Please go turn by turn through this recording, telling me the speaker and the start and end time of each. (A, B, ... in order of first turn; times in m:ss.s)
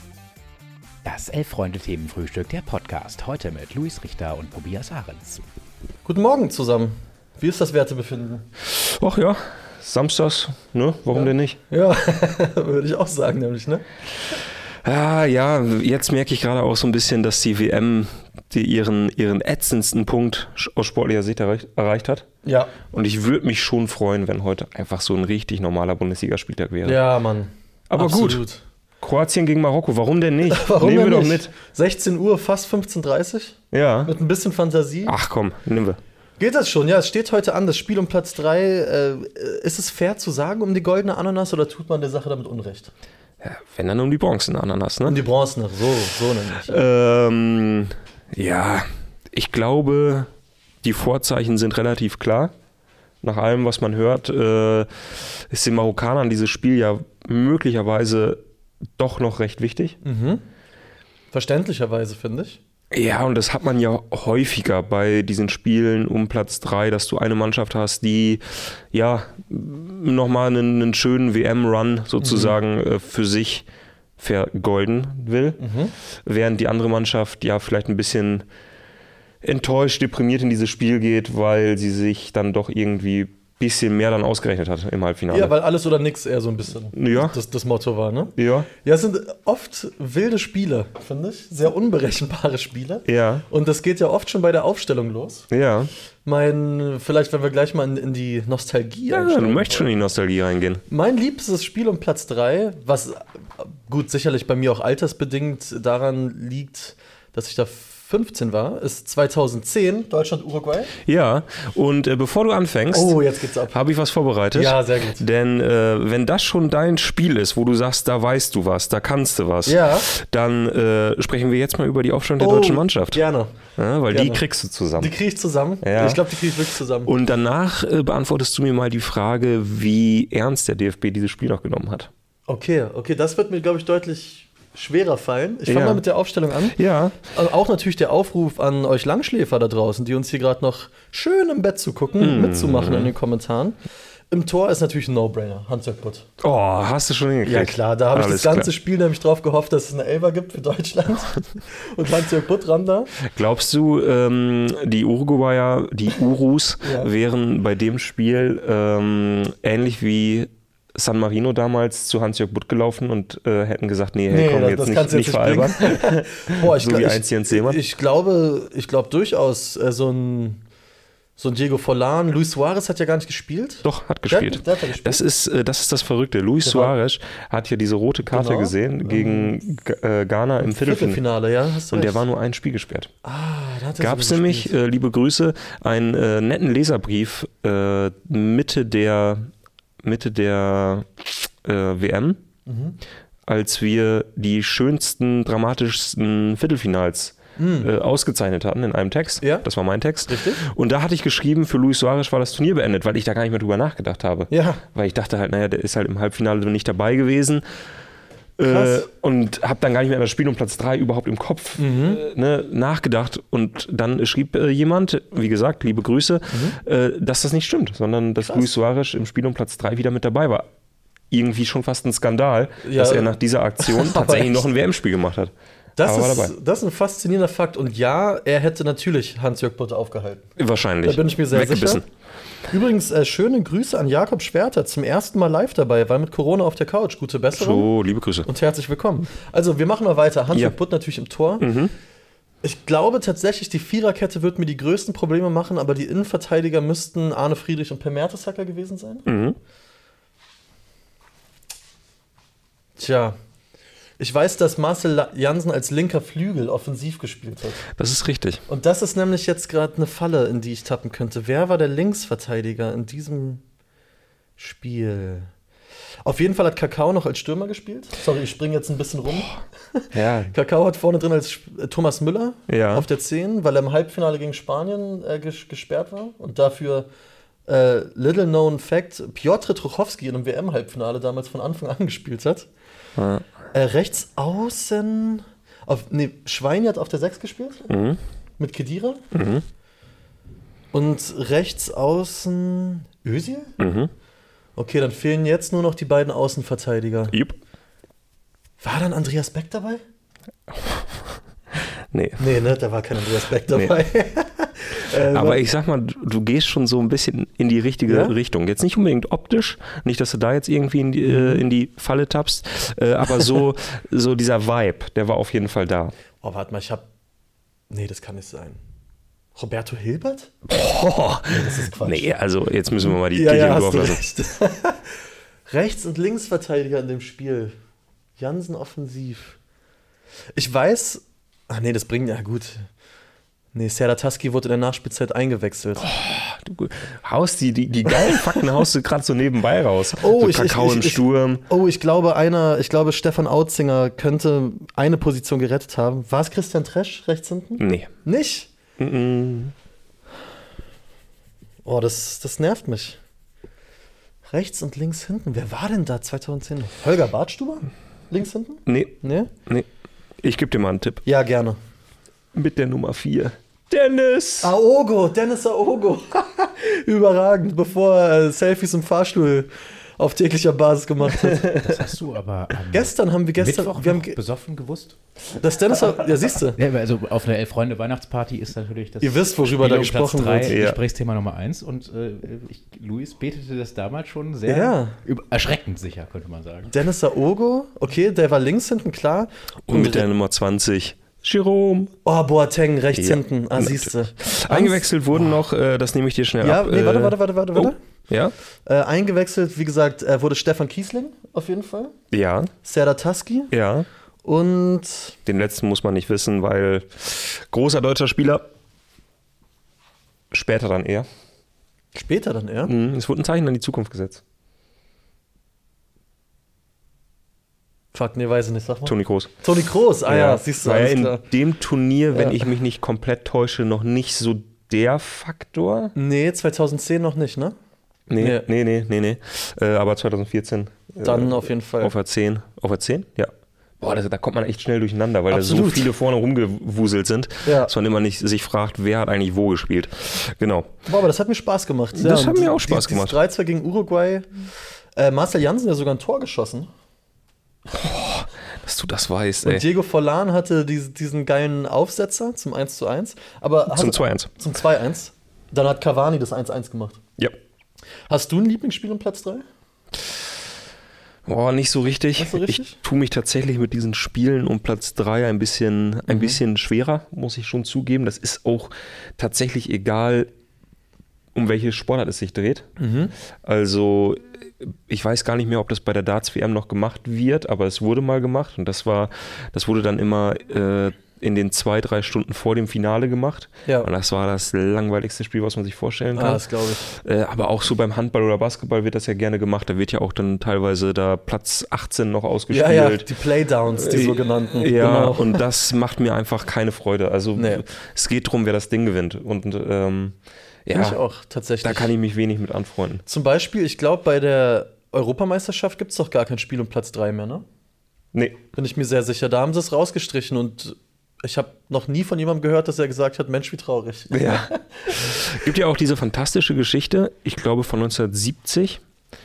0:01.0-0:05.4 A
0:06.1-0:08.5 B
0:08.6-0:11.6 C
0:11.1-0:13.8 B
0:14.8-0:22.3 C
0:22.4-0:22.7 B
0:22.9-0:27.0 C
0:26.8-0:28.6 B
0:27.9-0:28.4 C
0:29.0-0:31.5 C
0:30.5-0:35.2 B
0:33.7-0:34.1 C
0:35.1-0:36.0 C
0:36.4-0:42.9 B
0:43.4-0:45.2 C
0:45.1-0:46.8 B
0:46.7-0:50.3 C
0:50.8-0:52.5 C
0:53.2-0:58.4 C
0:59.0-1:00.0 C
1:00.0-1:00.4 B
1:01.3-1:02.6 B
1:02.9-1:13.7 C
1:12.2-1:12.6 B
1:14.2-1:15.6 C
1:15.6-1:15.9 B
1:16.2-1:18.5 C
1:19.4-1:25.5 C
1:25.3-1:35.5 B
1:26.9-1:27.4 C
1:28.4-1:28.7 C
1:33.1-1:33.4 C
1:35.5-1:35.9 C
1:36.2-1:39.9 B
1:39.1-1:40.8 C
1:40.9-1:50.9 B
1:51.1-1:53.2 C
1:52.9-1:53.8 B
1:53.7-2:03.2 C
1:54.5-1:55.2 B
1:59.6-2:00.1 B
2:02.4-2:03.5 B
2:03.8-2:05.2 C
2:04.1-2:04.4 B
2:05.0-2:07.1 B
2:05.8-2:06.2 C
2:07.1-2:12.1 C
2:12.5-2:16.8 B
2:15.7-2:16.0 C
2:16.7-2:17.2 C
2:17.3-2:23.8 B
2:22.2-2:23.1 C
2:24.3-2:26.3 B
2:26.4-2:28.7 C
2:27.4-2:33.1 B
2:33.2-2:47.8 C
2:36.8-2:37.1 B
2:44.3-2:50.6 B
2:51.4-2:55.2 B
2:53.8-3:01.2 C
2:56.6-2:57.0 B
2:58.3-2:59.6 B
3:00.6-3:02.2 B
3:01.9-3:03.1 C
3:03.2-3:04.7 B
3:04.0-3:09.5 C
3:10.0-3:12.4 C
3:12.7-3:13.0 B
3:13.5-3:27.6 C
3:17.6-3:17.9 B
3:19.4-3:19.7 B
3:20.3-3:20.6 B
3:24.5-3:24.8 B
3:28.6-3:40.7 C
3:28.7-3:29.1 B
3:31.8-3:32.2 B
3:36.5-3:36.8 B
3:41.3-3:45.5 C
3:42.8-3:44.6 B
3:46.0-3:50.5 B
3:46.0-3:46.5 C
3:50.6-3:52.0 C
3:51.0-3:52.0 B
3:52.7-3:57.9 B
3:57.5-3:58.5 C
3:58.4-4:01.7 B
4:01.6-4:01.9 C
4:02.6-4:09.3 B
4:09.3-4:09.6 C
4:13.0-4:13.4 B
4:14.2-4:17.9 B
4:17.9-4:18.6 C
4:18.7-4:23.6 B
4:24.6-4:25.5 B
4:26.2-4:37.1 B
4:30.1-4:30.5 C
4:32.7-4:33.1 C
4:37.7-4:42.7 B
4:43.2-4:43.5 C
4:43.7-4:47.9 B
4:47.9-4:48.2 C
4:48.6-4:49.2 B
4:49.3-4:49.6 C
4:50.9-4:53.8 B
4:53.8-4:54.1 C
4:54.8-4:57.4 B
4:57.3-4:57.6 C
4:58.8-5:00.0 B
5:00.8-5:01.0 C
5:02.1-5:02.5 C
5:02.4-5:05.6 B
5:03.7-5:04.0 C
5:05.1-5:16.1 C
5:08.1-5:08.4 B
5:11.2-5:11.6 B
5:16.4-5:17.0 B
5:17.9-5:18.8 B
5:19.6-5:20.5 B
5:20.7-5:24.3 C
5:21.5-5:22.3 B
5:23.0-5:25.1 B
5:25.7-5:27.8 B
5:28.4-5:29.6 B
5:30.6-5:32.9 B
5:33.7-5:36.1 B
5:36.0-5:41.7 C
5:38.2-5:38.6 B
5:40.2-5:48.7 B
5:47.8-5:48.1 C
5:49.0-5:49.7 C
5:51.8-5:53.2 B
5:54.5-5:59.5 B
5:58.9-5:59.9 C
6:00.4-6:01.2 C
6:01.3-6:01.8 B
6:02.5-6:04.7 C
6:04.6-6:12.0 B
6:11.8-6:15.2 A
6:12.9-6:14.4 B
6:15.6-6:16.8 B
6:16.8-6:27.1 A
6:19.2-6:20.8 B
6:20.7-6:21.0 C
6:24.7-6:25.2 B
6:26.9-6:30.3 B
6:29.9-6:32.1 C
6:32.2-6:35.6 B
6:33.1-6:38.5 C
6:36.6-6:38.0 B
6:38.9-6:42.1 B
6:42.3-6:42.7 C
6:42.8-6:43.7 B
6:43.7-6:44.1 C
6:44.4-6:45.4 B
6:45.5-6:48.6 C
6:50.5-6:51.3 C
6:52.1-6:52.9 B
6:52.9-6:54.4 C
6:58.1-7:01.4 B
6:59.0-6:59.5 C
7:00.2-7:06.1 C
7:02.3-7:02.7 B
7:06.2-7:07.8 B
7:08.3-7:20.9 C
7:08.4-7:08.7 B
7:11.2-7:12.1 B
7:15.5-7:16.1 B
7:17.6-7:17.9 B
7:21.1-7:26.9 B
7:22.2-7:23.4 C
7:27.9-7:29.9 C
7:29.6-7:37.2 B
7:33.9-7:34.5 C
7:38.3-7:39.6 B
7:41.4-7:50.5 C
7:42.4-7:43.0 B
7:46.3-7:46.6 B
7:51.5-7:52.9 C
7:53.0-7:53.3 B
7:53.6-8:13.3 C
8:06.4-8:07.0 B
8:12.7-8:15.6 B
8:13.9-8:21.2 C
8:17.6-8:17.8 B
8:20.9-8:22.1 B
8:21.8-8:23.2 C
8:23.3-8:27.6 B
8:28.3-8:28.6 C
8:28.7-8:35.4 B
8:34.3-8:39.0 C